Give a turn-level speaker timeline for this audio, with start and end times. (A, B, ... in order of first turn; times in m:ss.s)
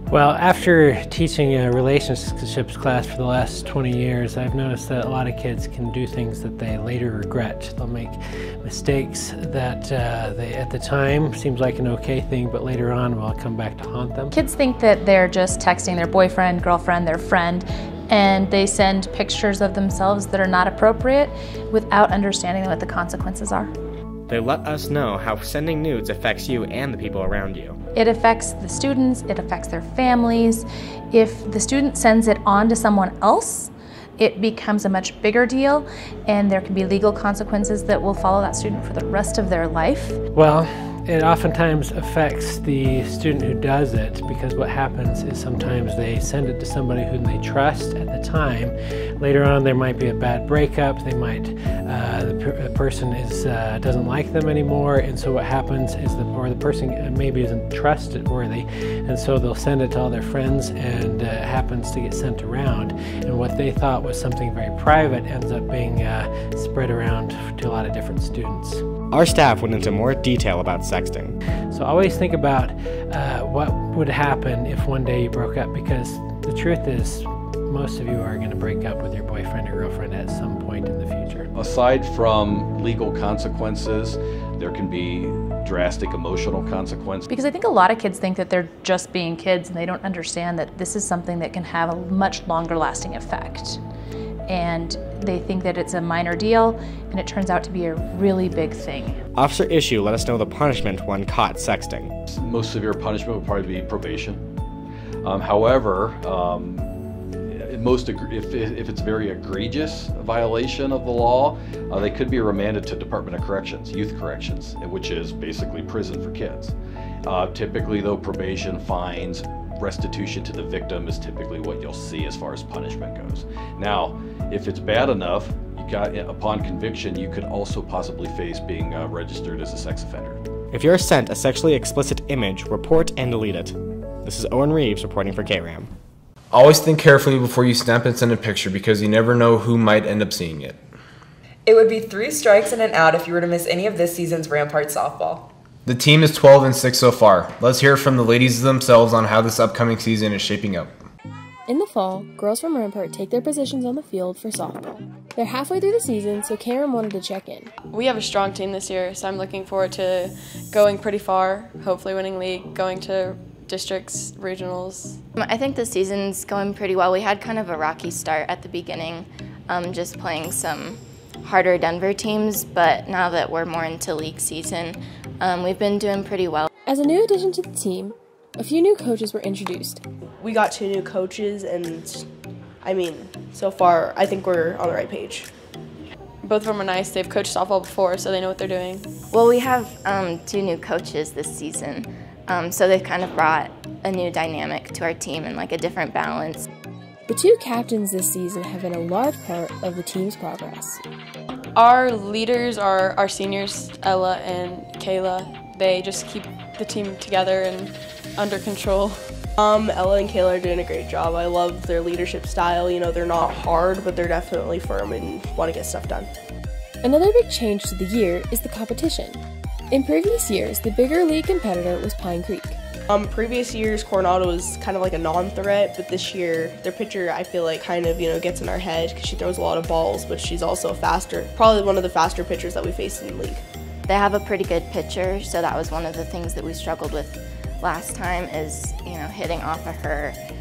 0:00.1-0:14.3 A
0:14.3-0:23.7 B
0:24.3-0:27.8 C
0:27.9-0:40.2 B
0:40.3-1:08.8 A
1:09.1-1:11.4 C
1:11.7-1:21.5 A
1:21.5-1:27.3 D
1:27.3-1:33.8 B
1:34.5-1:39.2 B
1:39.4-1:42.1 C
1:42.3-1:44.4 D
1:45.2-1:46.8 D
1:47.5-2:10.4 D
2:10.7-2:15.9 C
2:16.5-2:20.8 E
2:21.6-2:25.5 F
2:25.8-2:30.9 E
2:31.7-2:37.7 G
2:37.9-2:45.1 H
2:45.4-2:56.7 I
2:56.8-3:00.0 G
3:00.4-3:02.2 J
3:02.8-3:05.5 J
3:06.4-3:09.0 H
3:09.3-3:16.6 I
3:17.3-3:21.0 G
3:21.8-3:29.2 H
3:29.6-3:36.3 J
3:37.0-3:42.8 G
3:43.1-3:53.6 J
3:54.1-4:00.4 I